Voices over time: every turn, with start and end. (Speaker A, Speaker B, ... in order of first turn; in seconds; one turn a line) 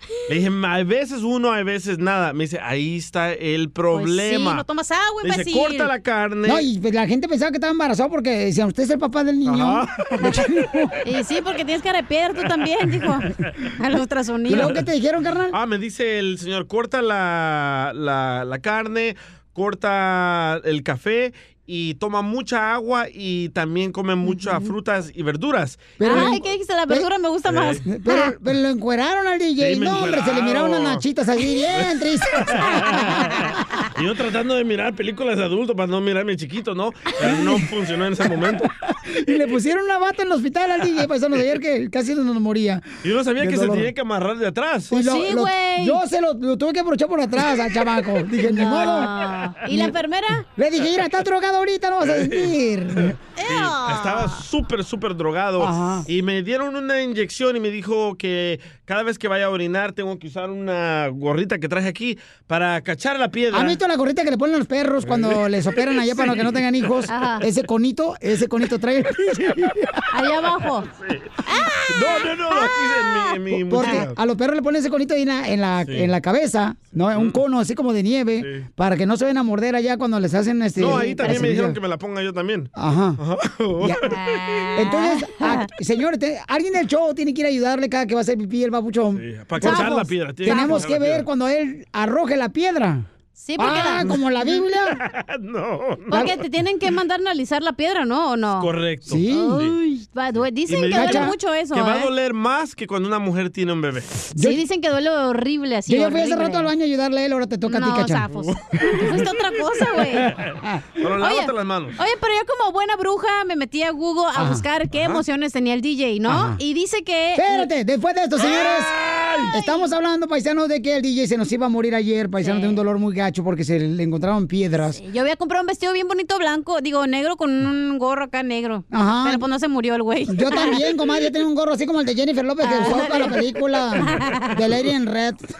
Speaker A: 0.3-4.6
Speaker B: 3.9-5.9
Speaker A: 5.2-6.7
Speaker C: 6.4-10.9
Speaker A: 9.4-10.5
Speaker B: 11.0-14.8
Speaker C: 14.5-15.6
Speaker A: 14.5-14.8
Speaker A: 15.5-26.3
Speaker B: 24.2-24.7
Speaker C: 26.0-27.1
Speaker B: 26.0-28.3
Speaker A: 27.5-27.8
Speaker C: 27.8-33.4
Speaker A: 29.6-31.0
Speaker A: 31.7-38.7
Speaker B: 32.9-33.3
Speaker C: 37.2-37.5
Speaker C: 38.5-43.9
Speaker A: 43.0-45.0
Speaker C: 44.9-49.1
Speaker B: 44.9-46.0
Speaker B: 48.4-50.5
Speaker C: 49.6-50.0
Speaker C: 50.5-53.2
Speaker A: 52.0-63.8
Speaker B: 53.4-54.4
Speaker C: 55.6-56.1
Speaker C: 63.5-70.0
Speaker A: 65.0-66.6
Speaker B: 67.1-67.4
Speaker B: 70.1-70.9
Speaker A: 70.8-71.3
Speaker B: 71.4-74.0
Speaker A: 71.9-74.2
Speaker C: 73.7-81.8
Speaker A: 75.8-76.1
Speaker A: 77.1-77.4
Speaker A: 78.4-78.7
Speaker A: 80.8-84.2
Speaker B: 80.8-81.5
Speaker C: 82.7-83.2
Speaker C: 83.8-84.1
Speaker B: 84.0-85.7
Speaker C: 84.7-95.0
Speaker A: 89.1-91.3
Speaker B: 89.6-90.9
Speaker B: 93.3-94.2
Speaker A: 93.7-94.2
Speaker A: 94.9-96.4
Speaker B: 96.1-98.7
Speaker A: 98.5-99.8
Speaker C: 99.0-99.6
Speaker B: 99.2-102.1
Speaker A: 100.7-104.3
Speaker C: 100.9-101.3
Speaker C: 104.3-104.6
Speaker B: 104.3-106.7
Speaker C: 105.9-108.3
Speaker B: 107.7-110.3
Speaker A: 108.3-112.0
Speaker B: 111.2-117.7
Speaker C: 114.3-114.7
Speaker A: 114.9-115.2
Speaker C: 116.3-116.6
Speaker C: 117.3-119.0
Speaker A: 118.4-119.5
Speaker C: 119.5-125.0
Speaker B: 119.5-119.9
Speaker B: 122.4-122.8
Speaker B: 124.9-130.9
Speaker C: 128.9-129.4
Speaker C: 130.3-135.5
Speaker B: 132.6-134.6